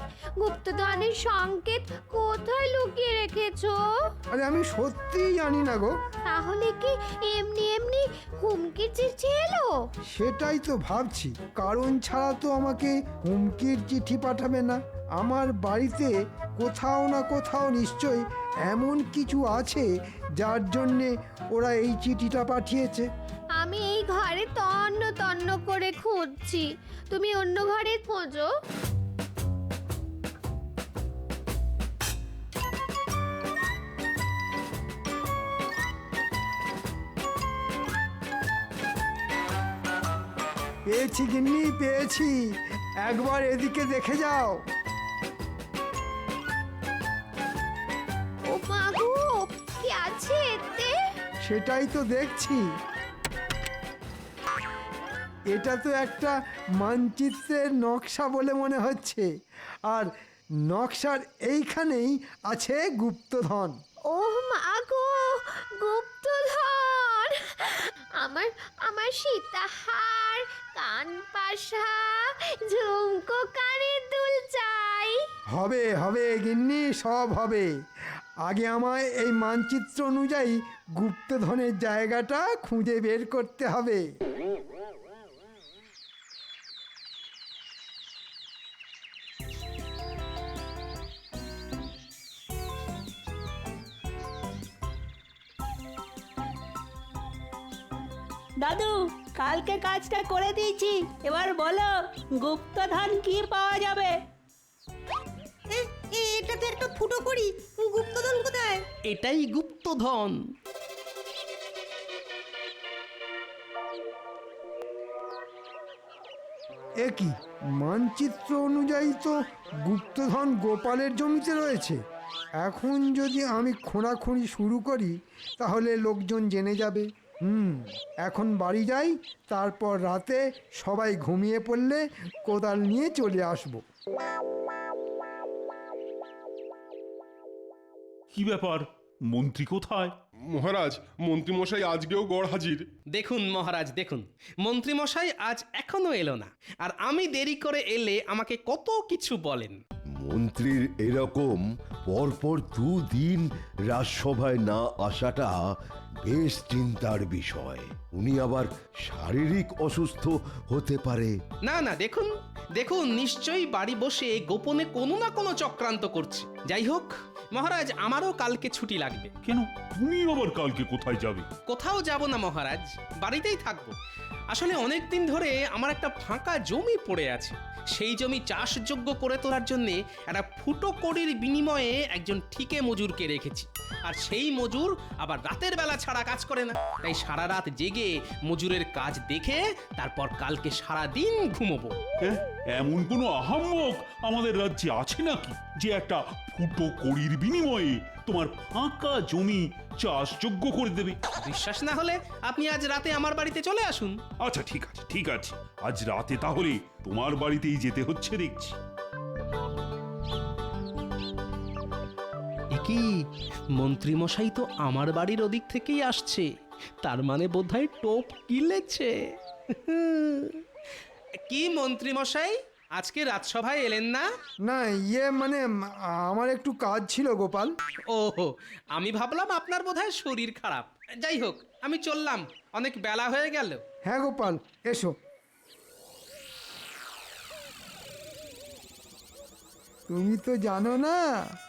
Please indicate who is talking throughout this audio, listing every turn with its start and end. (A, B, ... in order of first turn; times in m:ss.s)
0:00.4-0:03.8 A
0:04.3-0:05.9 B
0:06.3-0:09.7 A
0:10.1-0:19.9 B
0:20.4-0:23.1 B
0:23.6-0:28.5 A
0:40.9-0:42.4 B
0:43.0-0:44.6 B
0:48.5-0:50.9 A
0:51.4-0:52.6 B
0:55.5-0:59.3 B
1:00.7-1:03.8 B
1:04.1-1:15.2 A
1:15.6-1:17.7 B
1:18.5-1:24.1 B
1:38.6-1:44.2 C
1:45.8-1:48.8 D
1:49.1-1:50.4 E
1:57.0-2:02.0 B
2:02.6-2:13.8 B
2:18.3-2:20.2 F
2:20.5-2:22.8 G
2:23.1-2:29.8 E
2:30.2-2:35.7 H
2:36.2-2:41.4 H
2:41.6-2:49.3 E
2:49.4-2:51.5 F
2:51.7-2:54.0 E
2:54.5-3:12.0 E
3:12.2-3:21.2 F
3:21.4-3:24.2 E
3:24.4-3:28.8 F
3:32.7-3:33.2 E
3:33.8-3:36.5 E
3:37.0-3:39.2 E
3:39.7-3:40.6 E
3:41.5-3:44.2 E
3:44.7-3:45.6 B
3:46.2-3:47.7 B
3:48.1-3:53.8 E
3:54.1-3:55.1 B
4:00.1-4:01.2 B